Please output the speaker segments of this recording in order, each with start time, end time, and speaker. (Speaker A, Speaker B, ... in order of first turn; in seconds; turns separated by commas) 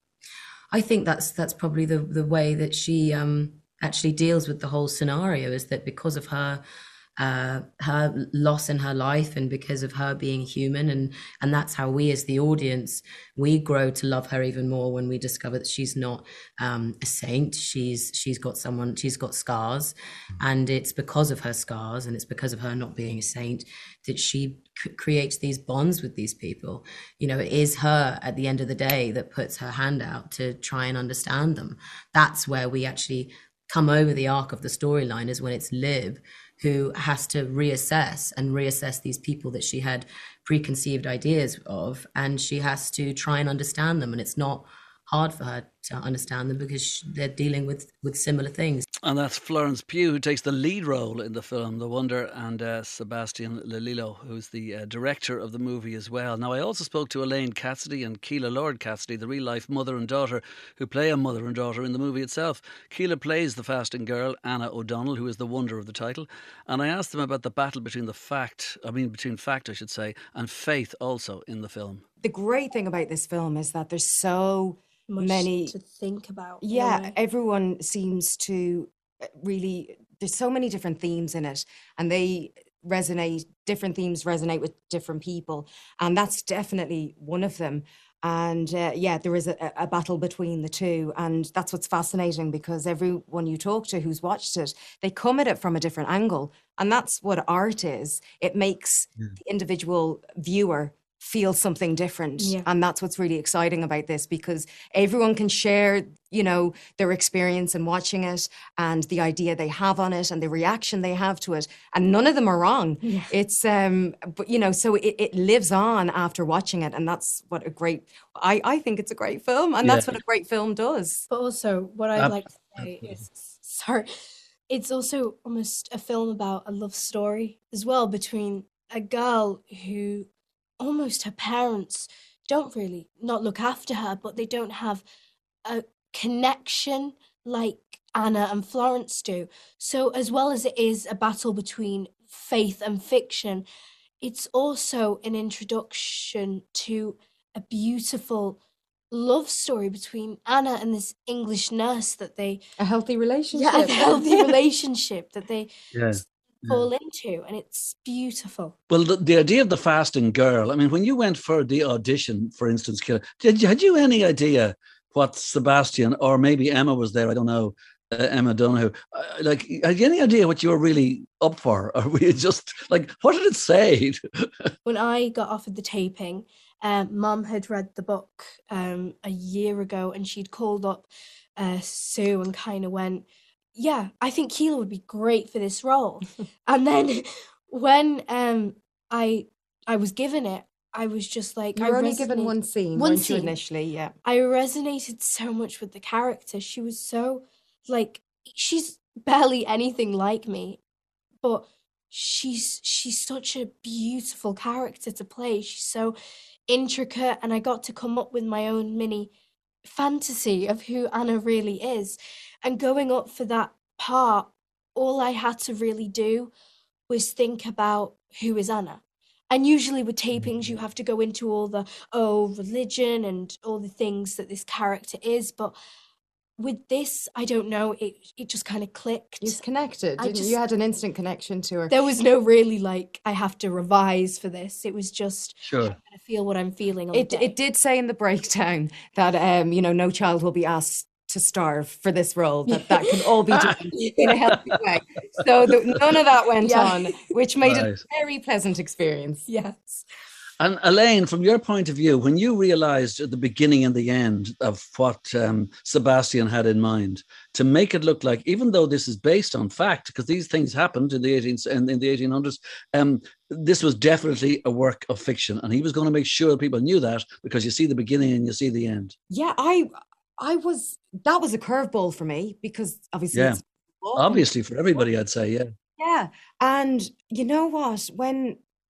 Speaker A: 0.7-6.6, Speaker A: 7.2-48.8, Speaker B: 49.0-72.0, Speaker C: 72.2-75.7, Speaker D: 75.1-77.1, Speaker C: 76.6-121.2, Speaker D: 102.4-102.7, Speaker D: 113.0-113.3, Speaker B: 119.8-120.1, Speaker D: 121.3-124.0, Speaker B: 122.2-123.2, Speaker D: 124.7-130.3, Speaker D: 130.8-135.0, Speaker D: 135.7-143.7, Speaker D: 144.2-148.6, Speaker D: 149.1-152.6, Speaker C: 152.8-154.6, Speaker D: 153.5-156.1, Speaker B: 155.9-156.9, Speaker D: 156.7-158.7, Speaker B: 158.9-174.7, Speaker D: 174.8-181.1, Speaker D: 181.6-183.2, Speaker D: 183.8-193.5, Speaker C: 191.7-194.1, Speaker D: 194.2-200.8, Speaker D: 201.4-206.1, Speaker D: 206.7-209.3, Speaker D: 209.8-216.5, Speaker D: 217.1-219.0, Speaker D: 219.5-225.8, Speaker D: 226.6-229.6, Speaker C: 229.4-232.0, Speaker D: 230.2-230.6, Speaker D: 231.9-237.5, Speaker B: 235.6-235.9, Speaker C: 237.1-249.4, Speaker D: 242.7-243.4, Speaker D: 246.6-247.3, Speaker B: 247.6-248.0, Speaker D: 249.5-249.9, Speaker B: 250.6-269.1, Speaker C: 269.3-274.4, Speaker B: 273.3-273.6, Speaker B: 274.1-275.7, Speaker C: 276.0-278.6